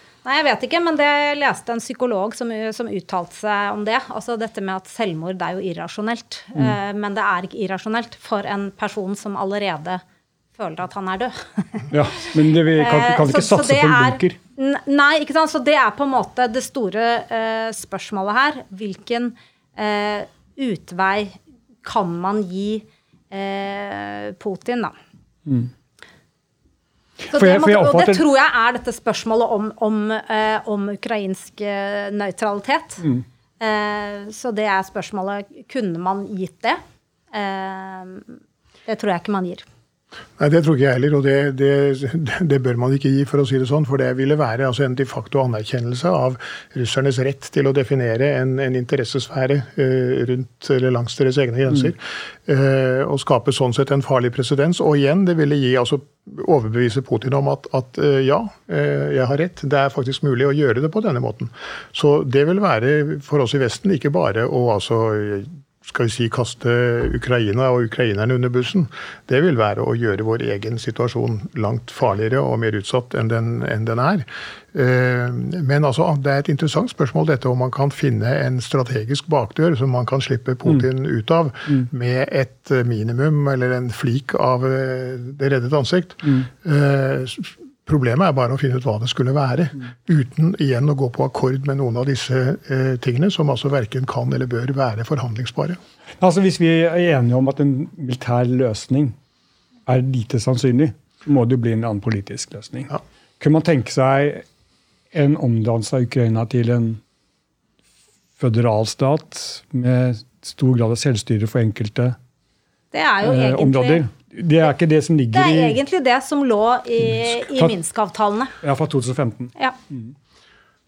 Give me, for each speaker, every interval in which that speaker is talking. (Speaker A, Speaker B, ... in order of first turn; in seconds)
Speaker A: 0.2-10.0, 10.6-11.9, 12.6-24.9, 27.3-33.1, 33.6-36.8, 37.3-39.6, 112.9-114.0, 115.3-118.5
Speaker B: 11.9-14.4, 27.3-28.2, 96.2-99.1, 99.8-104.4, 105.1-107.0, 108.4-112.2, 113.2-115.8, 117.1-117.7, 118.6-120.1
Speaker C: 40.4-95.8